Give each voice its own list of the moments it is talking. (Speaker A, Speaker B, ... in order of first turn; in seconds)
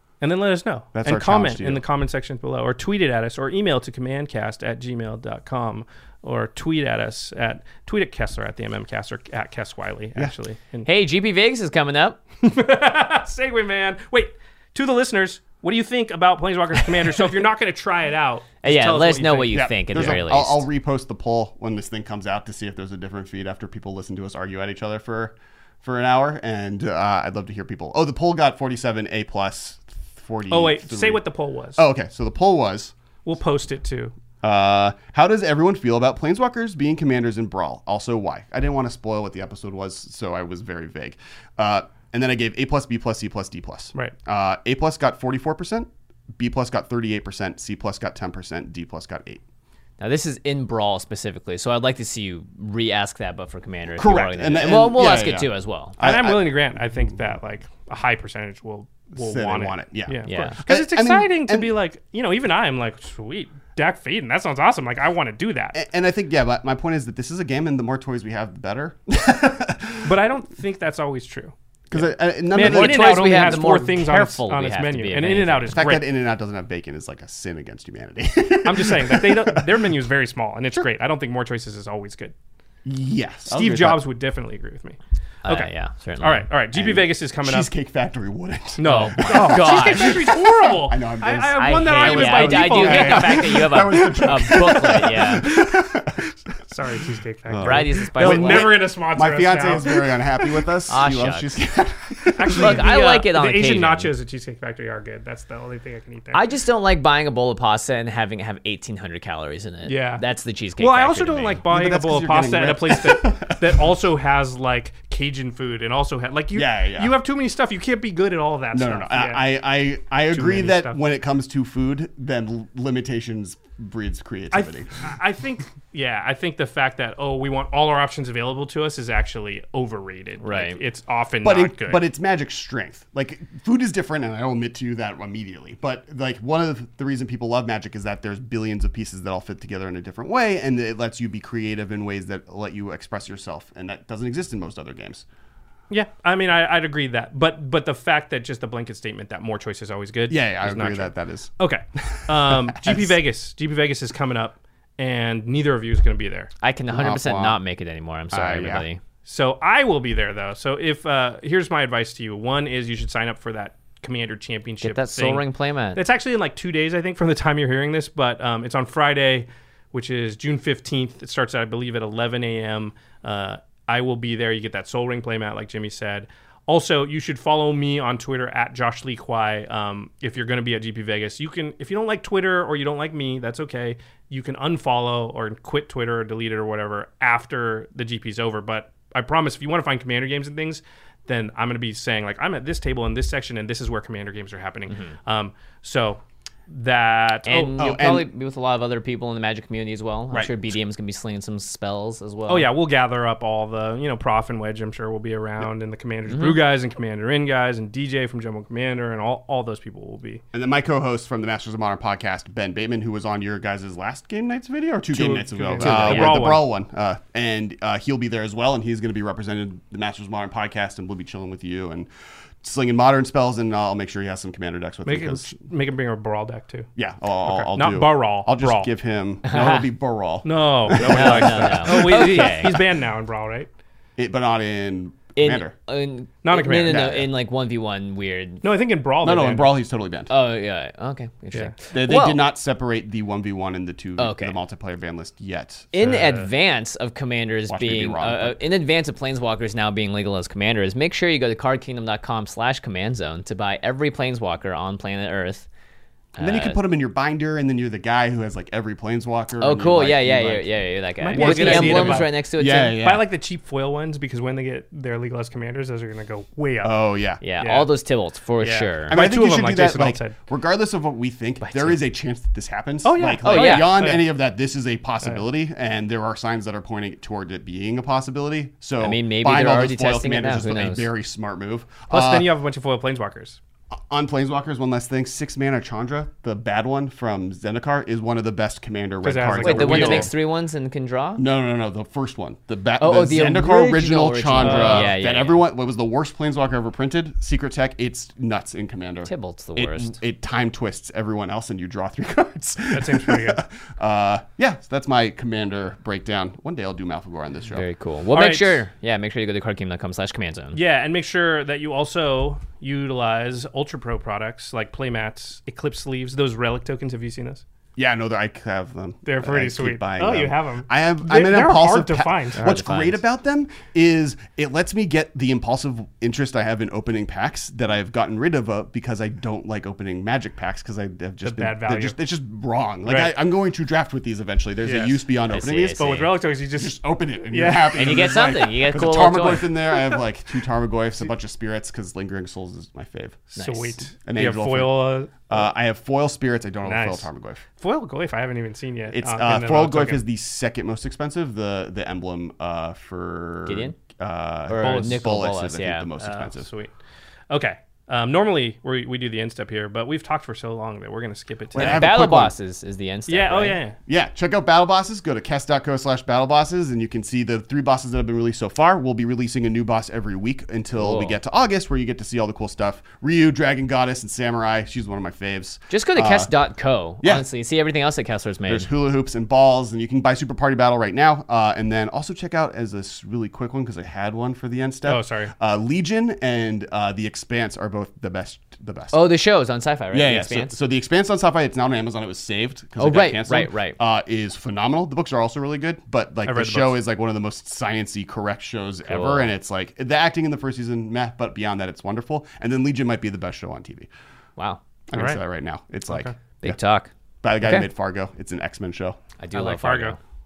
Speaker A: 0.2-10.9, 12.4-19.6, 30.5-31.9, 33.2-34.1, 56.0-65.8, 70.0-76.0, 78.7-82.3, 83.5-87.7, 88.8-94.6, 96.7-100.1, 102.4-106.4, 109.8-110.2, 110.8-119.6, 120.3-121.0, 124.5-132.0, 145.9-156.5, 159.2-197.8, 202.5-210.4, 215.1-216.6, 225.1-226.9, 227.4-228.9, 230.4-233.7, 236.4-237.3, 238.6-239.8, 246.0-246.5, 261.2-262.3, 263.0-267.0, 267.6-267.9, 268.6-270.4, 273.0-274.2, 282.1-283.6, 289.2-290.3, 294.6-295.1, 302.9-303.6, 308.3-308.8, 310.7-317.6, 319.2-322.6, 331.4-332.2, 333.1-333.4, 334.8-335.2, 336.0-338.4, 343.5-345.6, 346.8-347.3, 347.8-350.2, 354.8-355.3, 356.2-356.9, 357.5-362.1, 363.3-364.0, 385.1-385.5, 396.4-397.0, 405.1-405.4, 406.1-406.3, 409.5-410.2
Speaker B: 0.9-1.8, 19.5-31.2, 31.8-32.9, 34.4-49.4, 54.0-56.6, 59.2-61.7, 65.7-70.1, 71.9-73.7, 75.8-79.7, 82.8-84.0, 86.7-96.3, 97.5-102.9, 111.7-113.8, 116.5-117.2, 118.7-125.1, 131.4-145.2, 150.3-153.2, 156.9-157.6, 158.3-158.8, 197.8-198.3, 200.3-200.7, 210.5-222.1, 222.6-225.5, 227.0-232.7, 234.2-235.7, 236.9-237.2, 239.2-240.3, 241.9-245.9, 247.7-248.6, 256.4-263.3, 266.8-267.4, 269.1-282.5, 284.0-290.3, 291.4-307.9, 318.0-336.2, 336.8-343.5, 344.2-345.0, 345.5-347.6, 349.1-356.7, 361.7-362.5, 364.1-376.5, 378.7-389.2, 390.1-404.1, 405.1-406.8, 407.4-409.2
Speaker C: 10.8-12.2, 18.6-20.7, 50.0-56.0, 60.3-60.6, 72.6-75.8, 85.5-86.5, 88.8-90.2, 91.6-95.5, 97.6-98.7, 100.9-101.5, 102.6-104.1, 106.3-111.6, 130.4-130.8, 156.6-159.0, 164.8-166.0, 194.9-195.2, 197.5-202.7, 206.3-206.6, 215.8-216.4, 229.4-229.9, 231.0-232.8, 235.4-238.6, 240.3-242.4, 244.2-244.6, 245.9-255.7, 256.4-256.8, 259.6-263.0, 267.4-269.1, 271.6-272.0, 273.4-274.1, 279.0-281.1, 289.6-291.4, 293.0-295.6, 299.2-300.2, 307.7-310.8, 322.6-323.2, 335.5-336.3, 337.9-339.8, 343.6-344.0, 353.7-354.0, 354.7-356.1, 361.8-363.8, 371.0-371.4, 375.9-378.9, 389.1-390.7, 393.0-394.0, 399.1-399.5, 406.6-407.9, 409.4-410.2